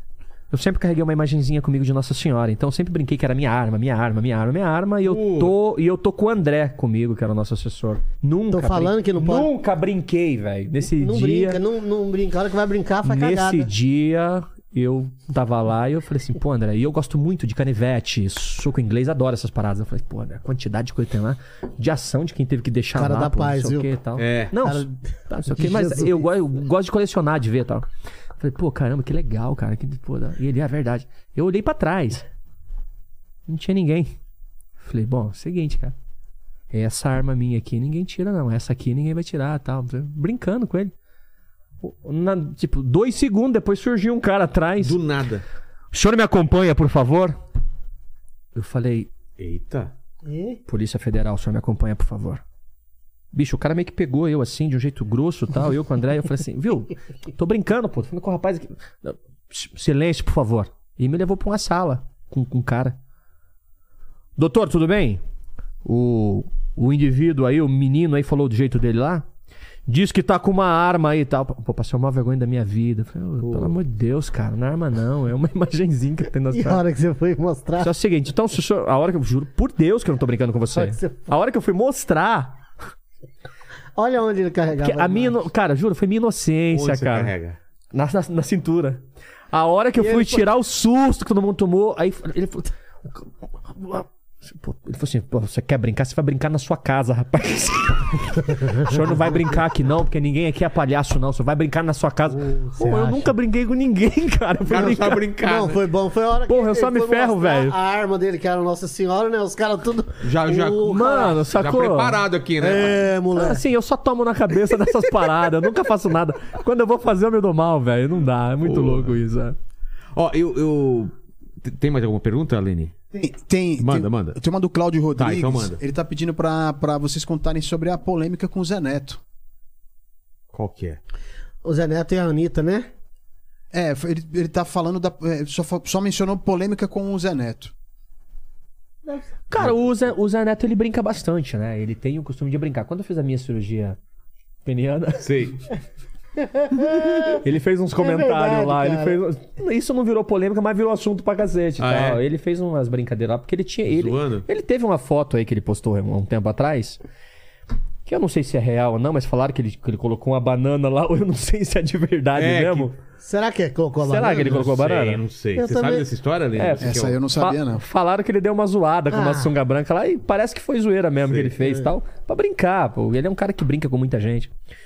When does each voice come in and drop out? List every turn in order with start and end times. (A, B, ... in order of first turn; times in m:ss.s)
0:00.5-0:11.6 A
0:05.0-0:05.5 B
0:08.5-0:09.5 C
0:10.9-0:13.7 C
0:13.0-0:27.8 A
0:22.9-0:23.9 C
0:24.2-0:24.5 B
0:24.5-0:26.2 C
0:28.4-0:32.2 A
0:33.5-0:34.1 A
0:34.8-0:35.9 A
0:36.7-0:40.9 A
0:41.8-0:45.0 A
0:44.8-0:45.4 B
0:45.9-0:47.4 A
0:48.5-0:49.1 A
0:49.4-0:49.9 B
0:50.2-0:50.6 C
0:50.7-0:52.4 A
0:53.3-1:03.0 A
1:04.4-1:05.2 A
1:05.8-1:09.2 A
1:09.9-1:16.8 A
1:13.4-1:13.7 B
1:16.5-1:17.9 C
1:17.8-1:22.6 A
1:20.7-1:21.2 C
1:24.0-1:25.3 C
1:24.8-1:27.3 A
1:26.7-1:27.6 B
1:27.9-1:45.2 A
1:30.0-1:30.4 C
1:38.9-1:39.3 C
1:42.3-1:43.3 C
1:44.7-1:45.8 B
1:44.8-1:51.4 C
1:46.5-1:47.8 A
1:50.2-1:53.1 B
1:50.8-1:52.2 A
1:52.6-1:53.6 C
1:53.3-1:59.6 A
1:58.6-1:59.2 B
2:00.1-2:02.9 B
2:03.1-2:09.2 D
2:03.8-2:04.4 B
2:05.2-2:05.8 B
2:10.5-2:11.0 B
2:11.6-2:12.9 C
2:13.7-2:17.7 D
2:19.5-2:24.0 A
2:24.6-2:25.2 A
2:25.2-2:25.6 B
2:26.4-2:27.4 C
2:27.3-2:37.0 A
2:28.0-2:29.2 C
2:31.8-2:32.2 B
2:33.9-2:34.4 B
2:38.0-2:42.9 A
2:42.4-2:42.9 B
2:43.2-2:44.7 C
2:44.0-2:45.2 A
2:44.5-2:47.2 B
2:45.6-2:46.1 C
2:46.6-2:54.5 A
2:46.8-2:47.8 D
2:49.1-2:49.5 C
2:51.6-2:51.9 C